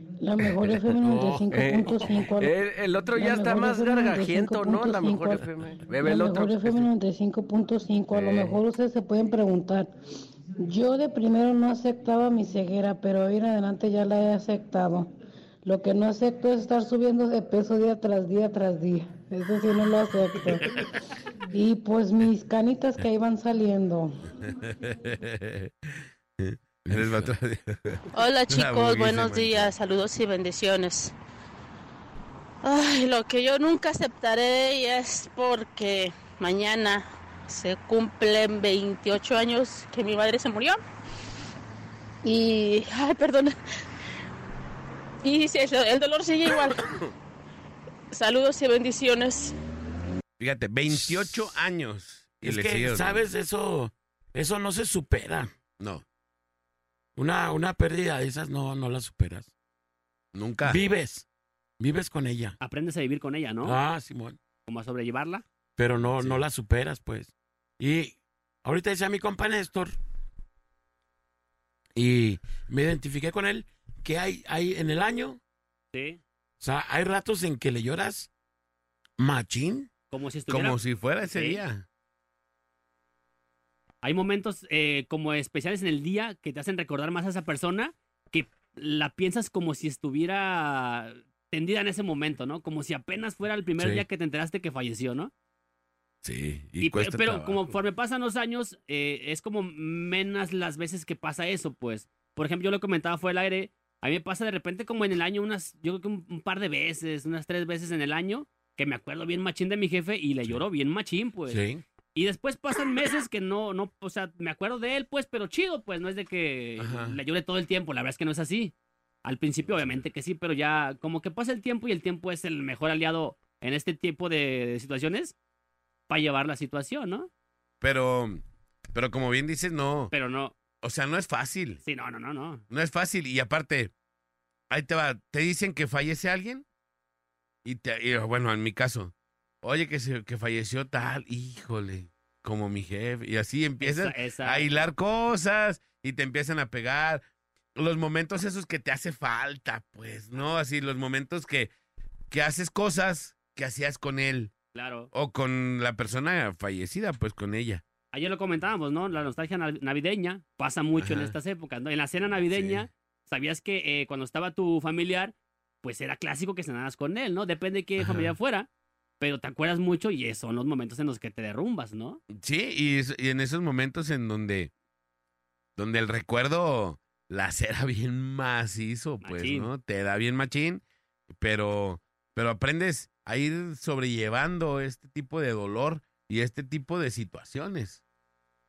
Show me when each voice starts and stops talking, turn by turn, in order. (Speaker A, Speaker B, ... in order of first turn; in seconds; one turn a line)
Speaker A: 0.2-5.5
Speaker B: 1.1-1.4
Speaker C: 1.5-6.9
Speaker A: 6.0-9.9
Speaker C: 8.1-8.6
Speaker A: 10.6-15.1
Speaker A: 15.7-20.7
Speaker A: 21.5-24.2
Speaker D: 24.4-29.7
Speaker B: 26.9-27.3
Speaker E: 28.1-31.1
Speaker E: 32.6-40.8
Speaker E: 42.2-43.6
Speaker E: 45.2-46.9
Speaker E: 48.1-49.5
Speaker D: 50.4-53.3
Speaker B: 50.9-51.4
Speaker B: 52.4-55.5
Speaker D: 55.8-56.0
Speaker B: 57.2-59.5
Speaker D: 60.3-60.9
Speaker B: 60.6-61.2
Speaker B: 61.8-62.6
Speaker F: 62.6-63.8
Speaker B: 63.6-64.4
Speaker F: 64.7-65.4
Speaker B: 65.8-70.0
Speaker B: 72.0-75.4
Speaker F: 75.9-76.2
Speaker B: 76.6-78.3
Speaker B: 79.2-79.9
Speaker F: 80.1-80.8
Speaker D: 80.5-81.9
Speaker F: 81.3-81.6
Speaker F: 84.0-95.3
Speaker D: 96.2-97.7
Speaker F: 96.8-111.6
Speaker B: 111.5-111.8
Speaker F: 112.2-118.7
Speaker D: 116.8-117.2
Speaker F: 119.2-125.3
Speaker F: 126.1-127.3
Speaker D: 127.8-128.4
Speaker D: 128.9-130.1
Speaker F: 130.1-130.6
Speaker D: 130.8-131.8
Speaker F: 131.8-132.6
Speaker D: 132.7-133.9
Speaker D: 134.7-136.7
Speaker D: 137.7-147.2
Speaker F: 143.8-144.7
Speaker D: 147.8-151.7
Speaker D: 152.3-154.5
Speaker F: 154.7-155.1
Speaker D: 155.1-157.8
Speaker F: 158.1-168.7
Speaker D: 161.0-161.3
Speaker D: 162.4-162.9
Speaker D: 168.0-168.3
Speaker F: 169.2-172.2
Speaker D: 172.3-174.7
Speaker D: 175.8-188.0
Speaker F: 179.2-179.7